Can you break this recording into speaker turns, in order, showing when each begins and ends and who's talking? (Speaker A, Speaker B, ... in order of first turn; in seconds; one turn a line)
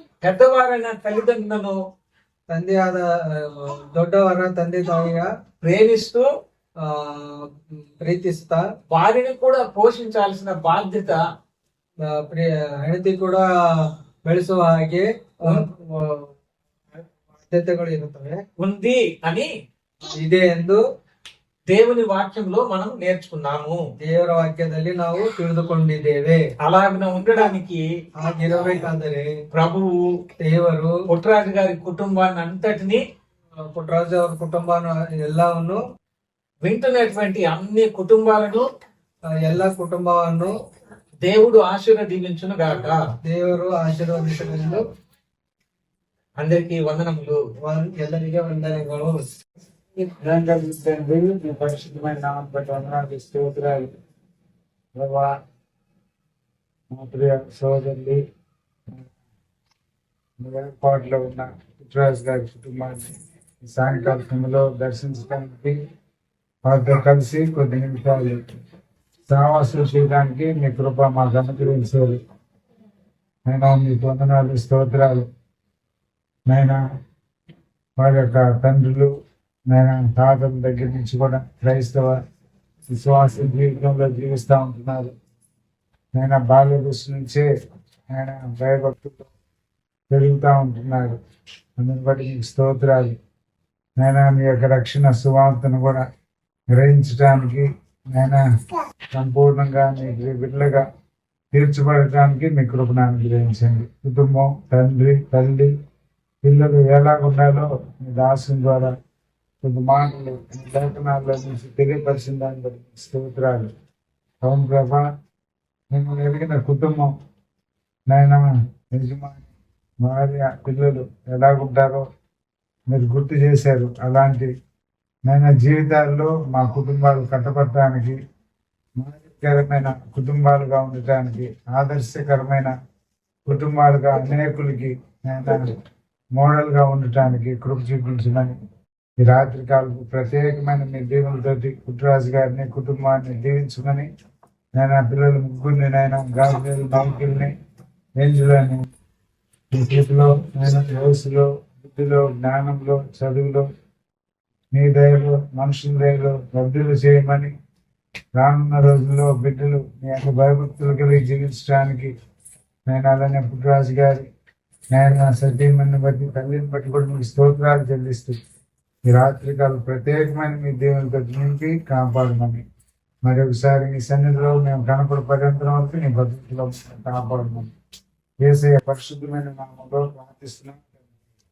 Speaker A: 0.2-1.8
Speaker B: 2.5-5.3
Speaker A: 5.6-6.3
Speaker B: 6.8-7.5
Speaker B: 8.0-8.7
Speaker A: 8.9-11.2
Speaker B: 12.1-16.3
Speaker B: 17.4-18.4
Speaker A: 18.6-19.5
Speaker B: 20.0-20.8
Speaker A: 21.7-23.8
Speaker B: 24.0-26.4
Speaker A: 26.6-27.9
Speaker B: 28.2-29.3
Speaker A: 29.5-30.0
Speaker B: 30.4-30.9
Speaker A: 31.1-33.0
Speaker B: 33.7-35.8
Speaker A: 36.6-38.6
Speaker B: 39.3-40.5
Speaker A: 41.2-43.0
Speaker B: 43.2-44.8
Speaker A: 46.4-47.4
Speaker B: 47.6-49.2
Speaker C: 50.0-53.9
Speaker C: 55.0-55.3
Speaker C: 56.9-58.2
Speaker C: 60.4-63.1
Speaker C: 63.6-65.8
Speaker C: 66.7-68.4
Speaker C: 69.3-72.2
Speaker C: 73.5-75.3
Speaker C: 76.5-76.8
Speaker C: 78.0-79.1
Speaker C: 79.7-82.2
Speaker C: 82.9-85.1
Speaker C: 86.1-87.5
Speaker C: 88.1-89.3
Speaker C: 90.1-91.2
Speaker C: 91.8-93.2
Speaker C: 94.0-96.0
Speaker C: 96.7-98.4
Speaker C: 99.1-100.8
Speaker C: 101.5-105.7
Speaker C: 106.4-108.9
Speaker C: 109.6-113.7
Speaker C: 114.4-115.0
Speaker C: 115.9-117.1
Speaker C: 118.1-119.5
Speaker C: 120.0-122.0
Speaker C: 122.9-124.5
Speaker C: 125.3-128.2
Speaker C: 129.0-132.7
Speaker C: 133.4-135.8
Speaker C: 136.3-138.6
Speaker C: 139.2-144.1
Speaker C: 144.8-147.5
Speaker C: 148.2-148.9
Speaker C: 149.7-153.7
Speaker C: 154.7-157.5
Speaker C: 158.3-162.1
Speaker C: 162.9-164.3
Speaker C: 164.9-168.4
Speaker C: 169.1-172.6
Speaker C: 173.2-177.7
Speaker C: 178.4-181.0